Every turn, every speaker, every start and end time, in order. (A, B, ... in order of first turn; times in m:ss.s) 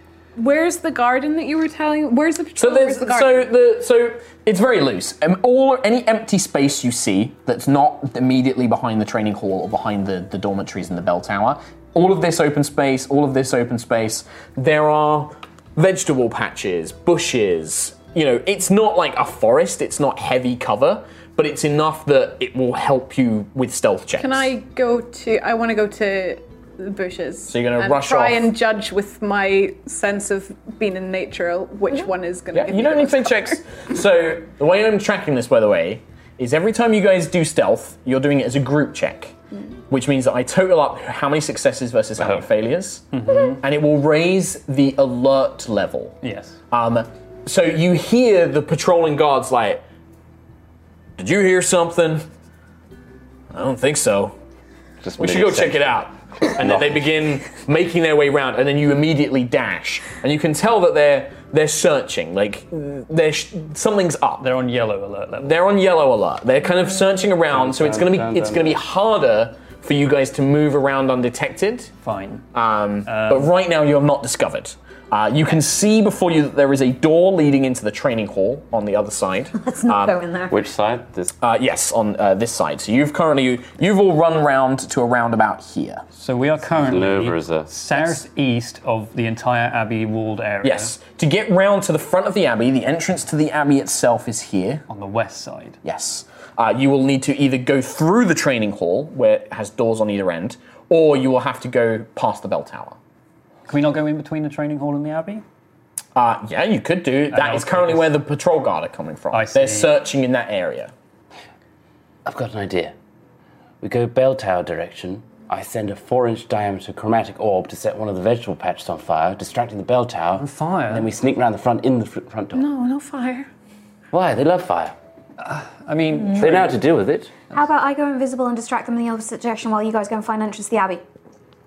0:00.4-0:03.5 A
0:02.6-0:24.5 B
0:24.1-0:33.6 A
0:27.5-0:28.5 B
0:32.5-0:39.3 B
0:39.9-0:46.2 B
0:43.1-0:43.6 C
0:46.2-0:46.6 C
0:46.7-0:49.8 B
0:51.2-0:52.2 B
0:53.5-0:54.3 B
0:55.0-0:57.1 D
0:55.2-1:04.5 B
1:04.4-1:05.6 C
1:05.4-1:11.9 B
1:07.5-1:08.8 D
1:12.0-1:12.4 C
1:12.5-1:20.2 B
1:13.0-1:13.5 C
1:19.6-1:20.6 E
1:20.5-1:21.3 D
1:21.4-1:26.0 B
1:26.2-1:30.9 C
1:26.8-1:27.7 D
1:30.6-1:34.8 B
1:34.9-1:35.8 C
1:35.8-1:43.0 B
1:43.7-1:45.4 C
1:46.2-1:50.9 B
1:47.3-1:48.2 C
1:49.3-1:49.9 C
1:52.2-1:52.9 D
1:53.8-2:02.6 D
2:00.4-2:01.1 C
2:02.5-2:03.5 A
2:04.1-2:04.9 D
2:05.4-2:06.8 C
2:06.3-2:07.3 D
2:07.5-2:11.0 E